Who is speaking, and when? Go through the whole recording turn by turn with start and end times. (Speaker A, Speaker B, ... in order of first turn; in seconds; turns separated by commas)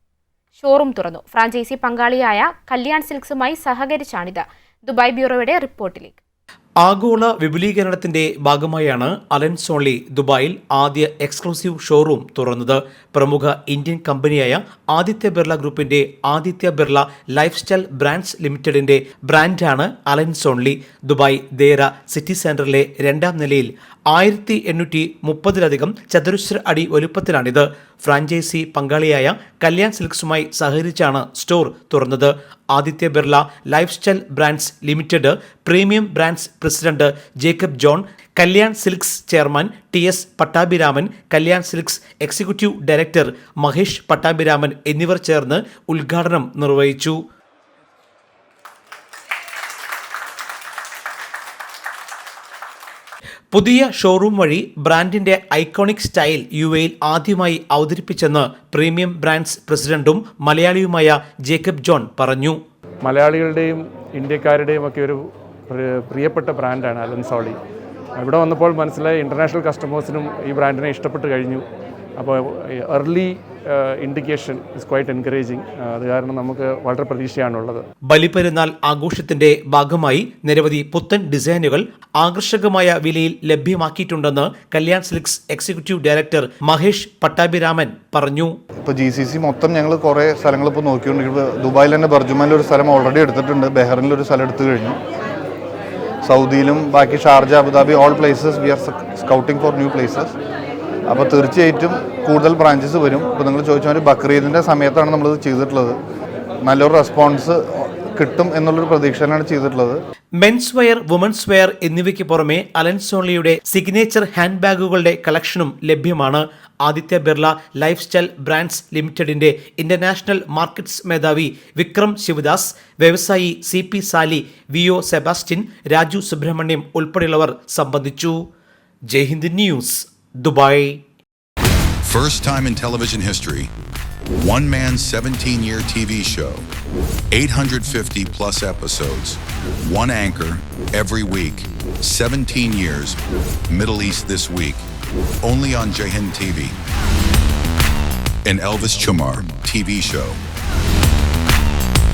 Speaker A: 0.6-6.2, Speaker B: 6.8-47.2, Speaker B: 53.5-62.6, Speaker C: 63.0-67.6, Speaker C: 68.2-71.7, Speaker C: 72.2-77.8, Speaker B: 78.1-88.6, Speaker D: 88.8-95.0, Speaker D: 96.2-100.3, Speaker D: 101.1-106.0, Speaker D: 106.6-110.0, Speaker B: 110.4-128.4, Speaker B: 129.1-131.0, Speaker E: 132.0-133.7, Speaker E: 134.3-136.7, Speaker E: 137.3-144.9, Speaker E: 145.4-146.8, Speaker E: 148.4-150.4